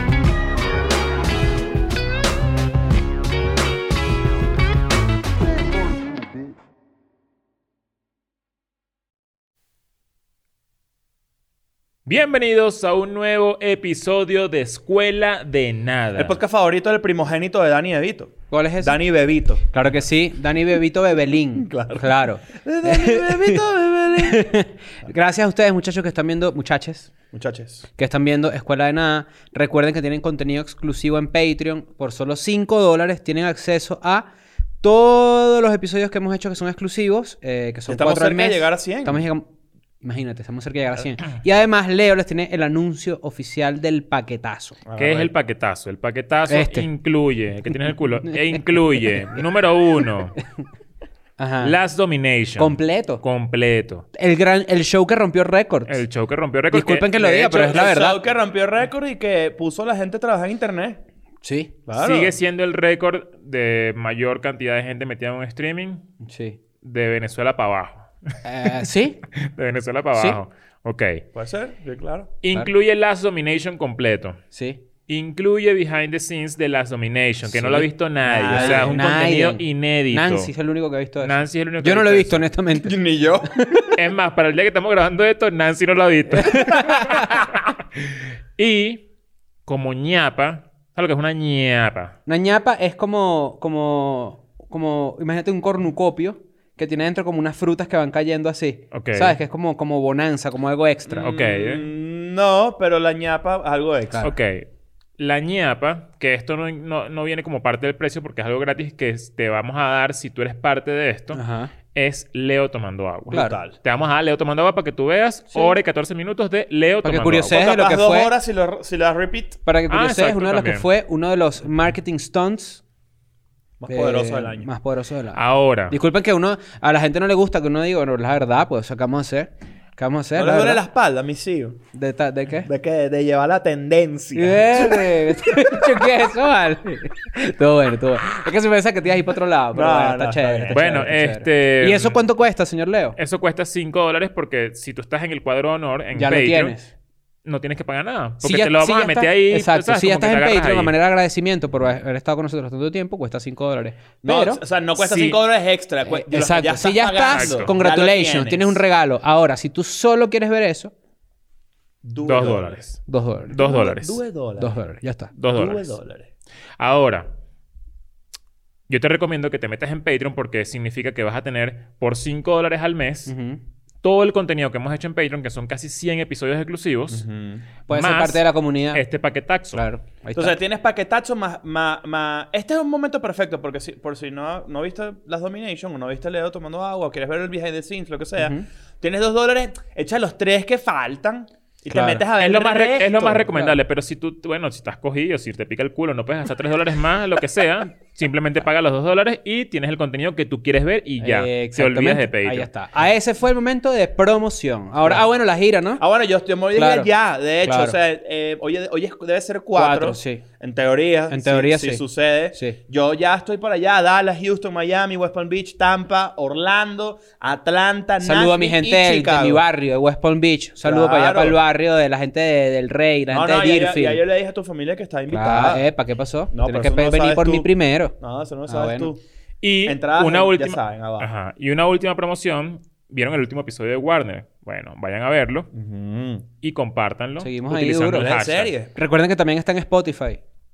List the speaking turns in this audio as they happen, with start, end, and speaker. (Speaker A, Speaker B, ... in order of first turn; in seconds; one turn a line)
Speaker A: 12.1-16.4
Speaker B: 16.1-19.7
Speaker C: 18.5-19.0
Speaker C: 19.7-23.6
Speaker B: 21.6-24.4
Speaker C: 24.2-27.1
Speaker B: 27.3-27.8
Speaker C: 28.0-34.3
Speaker C: 34.8-39.5
Speaker B: 37.9-39.2
Speaker C: 40.0-44.8
Speaker B: 44.8-45.3
Speaker A: 45.0-50.3
Speaker C: 46.5-46.9
Speaker C: 51.4-51.7
Speaker A: 51.6-54.0
Speaker C: 52.6-53.2
Speaker C: 54.1-56.0
Speaker A: 55.9-57.1
Speaker C: 56.7-58.2
Speaker B: 57.1-61.0
Speaker C: 61.4-61.7
Speaker B: 61.9-62.4
Speaker A: 62.0-66.1
Speaker C: 66.2-66.6
Speaker A: 66.8-68.3
Speaker C: 68.4-69.2
Speaker A: 69.3-71.2
Speaker B: 71.3-72.3
Speaker A: 72.4-74.4
Speaker C: 74.5-74.8
Speaker A: 75.1-80.5
Speaker C: 77.5-77.9
Speaker B: 78.2-78.9
Speaker C: 78.5-83.0
Speaker A: 81.2-82.4
Speaker B: 82.7-83.9
Speaker C: 83.5-83.9
Speaker A: 83.9-89.0
Speaker C: 86.3-87.4
Speaker B: 86.8-87.3
Speaker A: 89.7-92.1
Speaker C: 92.2-101.3
Speaker A: 98.9-99.4
Speaker B: 101.1-104.3
Speaker A: 101.2-101.8
Speaker A: 104.2-111.4
Speaker C: 111.3-111.7
Speaker A: 111.9-117.7
Speaker C: 113.3-113.5
Speaker B: 113.3-113.8
Speaker C: 117.0-118.3
Speaker B: 117.5-119.6
Speaker C: 119.7-122.8
Speaker A: 119.9-120.8
Speaker B: 123.8-124.7
Speaker C: 123.9-130.8
Speaker A: 125.3-126.0
Speaker B: 130.3-131.8
Speaker C: 131.9-132.7
Speaker B: 132.6-136.0
Speaker C: 134.3-143.2
Speaker B: 139.7-141.0
Speaker A: 140.7-142.2
Speaker A: 143.2-146.8
Speaker C: 146.1-146.9
Speaker A: 147.4-150.9
Speaker C: 148.4-154.6
Speaker B: 154.2-158.8
Speaker A: 155.0-155.4
Speaker C: 156.0-160.9
Speaker A: 157.3-157.7
Speaker B: 162.0-162.8
Speaker A: 162.2-164.2
Speaker C: 163.1-163.6
Speaker B: 163.5-164.8
Speaker C: 164.6-165.3
Speaker A: 165.4-166.0
Speaker B: 165.5-166.3
Speaker A: 166.8-167.3
Speaker A: 168.9-173.3
Speaker C: 173.3-173.6
Speaker A: 174.0-177.2
Speaker B: 177.1-177.7
Speaker C: 177.9-179.0
Speaker A: 177.9-179.8
Speaker C: 179.7-180.6
Speaker B: 180.3-193.7
Speaker C: 188.4-188.7
Speaker C: 191.9-192.2
Speaker A: 192.4-202.7
Speaker C: 201.2-206.0
Speaker B: 206.0-219.6
Speaker C: 206.7-207.1
Speaker C: 207.6-207.9
Speaker C: 209.7-210.4
Speaker C: 211.3-212.8
Speaker C: 218.2-224.2
Speaker B: 220.8-221.6
Speaker B: 223.3-225.8
Speaker C: 225.3-228.1
Speaker B: 226.5-229.2
Speaker C: 228.7-229.1
Speaker A: 229.6-235.7
Speaker B: 229.8-231.3
Speaker B: 235.7-236.5
Speaker A: 236.6-238.7
Speaker C: 237.4-238.3
Speaker B: 238.1-238.9
Speaker C: 238.9-240.4